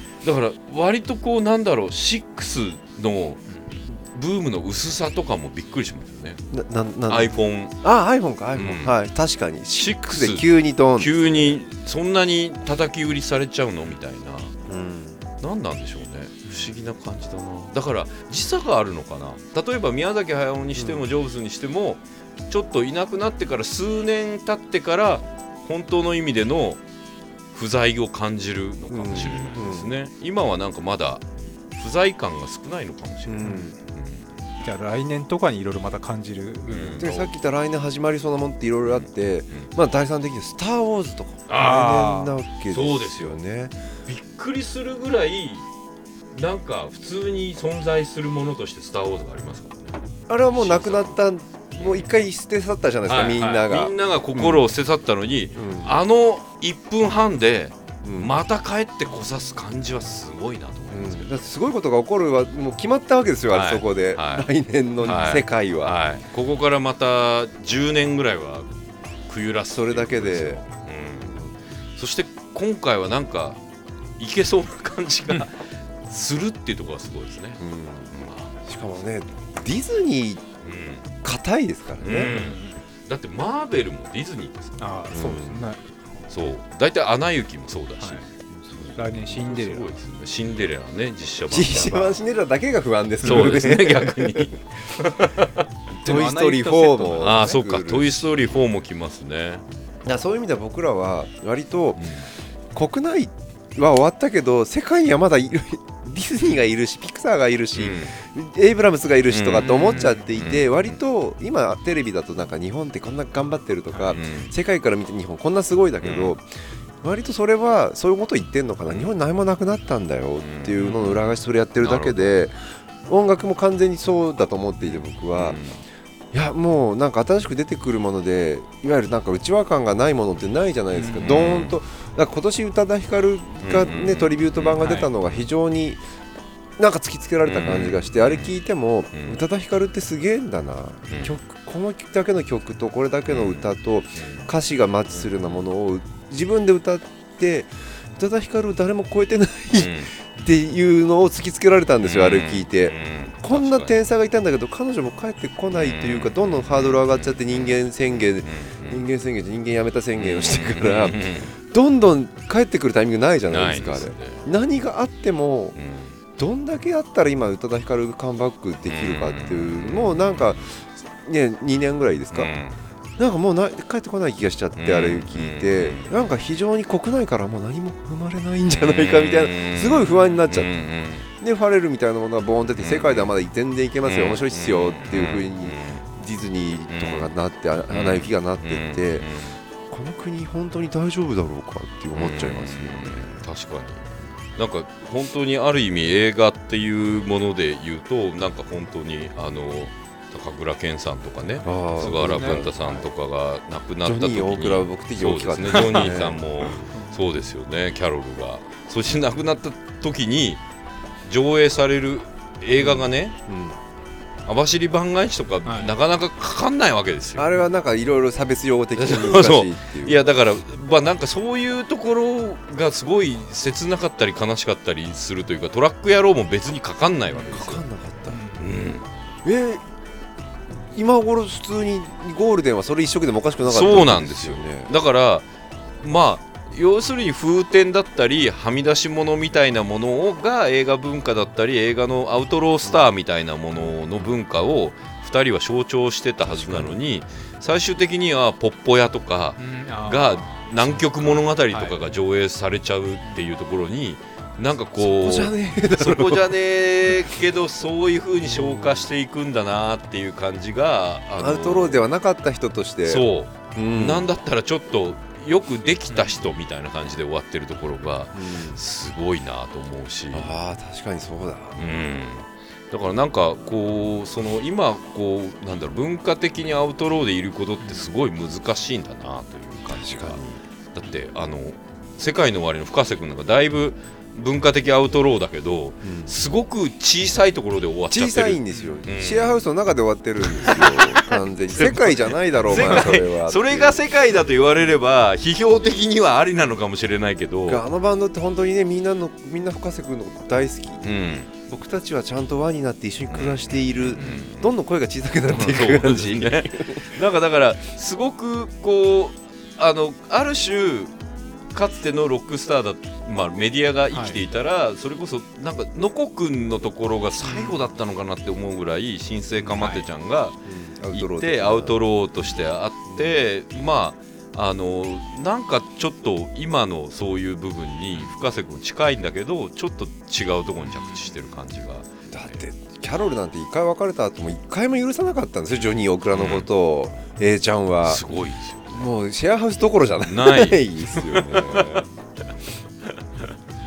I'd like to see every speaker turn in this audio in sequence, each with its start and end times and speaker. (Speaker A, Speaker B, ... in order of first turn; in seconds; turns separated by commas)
Speaker A: 0.2-6.4, Speaker B: 3.5-3.8, Speaker C: 6.5-11.5, Speaker A: 7.1-7.7, Speaker A: 8.6-8.9, Speaker A: 9.8-14.5, Speaker C: 14.7-15.2, Speaker A: 15.4-26.8, Speaker B: 16.4-16.8, Speaker C: 20.8-21.1, Speaker A: 27.5-31.2, Speaker C: 28.9-29.9, Speaker B: 29.2-29.5, Speaker A: 31.7-34.3, Speaker C: 33.2-33.7, Speaker B: 33.4-33.7, Speaker B: 34.6-37.0, Speaker A: 36.6-37.3, Speaker C: 37.0-43.7, Speaker A: 38.9-39.7, Speaker A: 41.5-41.9, Speaker B: 41.5-42.4, Speaker A: 42.7-43.4, Speaker A: 44.0-45.6, Speaker A: 46.3-50.0, Speaker C: 50.3-54.6, Speaker A: 50.5-51.2, Speaker A: 51.8-52.0, Speaker A: 53.0-61.4, Speaker C: 55.5-56.0, Speaker C: 58.0-58.3, Speaker C: 60.9-65.9, Speaker A: 63.5-64.5, Speaker A: 65.0-68.8, Speaker A: 69.3-71.4, Speaker C: 69.7-70.6, Speaker C: 71.2-71.5, Speaker A: 71.9-73.6, Speaker A: 74.2-78.5, Speaker C: 77.6-78.1, Speaker C: 78.6-80.4, Speaker A: 80.6-81.0, Speaker C: 81.2-82.4, Speaker A: 82.0-84.9, Speaker B: 82.1-82.7, Speaker B: 84.8-86.2, Speaker C: 85.1-85.7, Speaker A: 86.3-88.3, Speaker C: 88.5-89.0, Speaker A: 88.8-92.2, Speaker B: 89.0-90.0, Speaker C: 91.5-94.6, Speaker A: 93.2-95.6, Speaker B: 96.0-97.5, Speaker C: 96.0-98.5, Speaker A: 97.2-99.6, Speaker C: 100.0-116.5, Speaker A: 102.0-102.2, Speaker A: 107.7-108.1, Speaker A: 109.3-111.0, Speaker B: 109.6-110.2, Speaker B: 113.9-114.2, Speaker A: 114.1-114.5, Speaker A: 116.0-116.3, Speaker C: 117.0-125.6, Speaker A: 118.9-119.1, Speaker A: 120.4-121.1, Speaker B: 120.8-121.2, Speaker A: 121.8-122.5, Speaker A: 124.8-125.8, Speaker C: 126.3-136.0, Speaker B: 130.9-131.4, Speaker A: 131.2-131.8, Speaker A: 133.6-135.5, Speaker B: 134.8-135.1, Speaker C: 136.8-165.8, Speaker A: 137.4-138.5, Speaker A: 139.1-139.4, Speaker A: 141.1-141.3, Speaker A: 143.3-144.5, Speaker A: 145.1-145.6, Speaker A: 149.8-150.1, Speaker A: 152.0-153.9, Speaker A: 155.7-159.0, Speaker A: 160.1-161.5, Speaker A: 163.5-164.4, Speaker A: 165.7-166.2, Speaker C: 166.3-172.5, Speaker A: 168.8-170.8, Speaker A: 172.3-172.8, Speaker C: 173.2-180.7, Speaker A: 174.8-176.3, Speaker A: 178.7-181.3, Speaker C: 181.4-189.3, Speaker A: 182.8-183.3, Speaker A: 184.0-186.0, Speaker A: 186.9-187.3, Speaker A: 187.9-189.6, Speaker C: 189.9-193.3, Speaker A: 192.2-210.6, Speaker C: 201.6-203.0, Speaker B: 202.0-203.0, Speaker C: 204.0-206.9, Speaker B: 205.7-206.1, Speaker B: 206.9-207.2, Speaker A: 211.2-213.3, Speaker C: 212.8-213.8, Speaker A: 214.4-217.5, Speaker B: 215.6-215.9, Speaker C: 217.4-220.2, Speaker A: 218.9-227.8, Speaker C: 227.3-228.4, Speaker B: 228.3-228.7, Speaker A: 228.5-229.1, Speaker C: 229.4-229.9, Speaker C: 230.7-234.9, Speaker A: 233.6-235.5, Speaker A: 236.0-262.1, Speaker C: 246.4-247.0, Speaker B: 249.6-252.2, Speaker B: 253.2-253.5, Speaker C: 255.0-256.5, Speaker C: 257.1-257.3, Speaker C: 261.4-264.3, Speaker A: 263.0-270.5, Speaker B: 266.1-266.3, Speaker C: 268.3-268.8, Speaker C: 270.3-271.9, Speaker A: 271.8-280.4, Speaker B: 277.8-278.1, Speaker C: 279.9-280.6, Speaker A: 280.9-289.6, Speaker C: 286.0-286.3, Speaker C: 288.1-294.4, Speaker A: 290.4-297.8, Speaker C: 297.6-301.1, Speaker A: 301.0-301.5, Speaker C: 301.7-307.1, Speaker A: 303.3-304.7, Speaker B: 304.2-304.5, Speaker A: 305.5-311.1, Speaker A: 311.7-320.6, Speaker B: 314.1-314.4, Speaker B: 317.4-317.8, Speaker C: 319.6-319.9, Speaker B: 319.8-320.1, Speaker C: 320.6-322.0, Speaker A: 321.1-332.6, Speaker C: 323.1-323.3, Speaker B: 330.9-331.3, Speaker C: 332.3-338.2, Speaker A: 336.3-336.7, Speaker A: 338.0-339.1, Speaker C: 338.9-342.1, Speaker A: 340.2-342.0, Speaker A: 343.1-343.5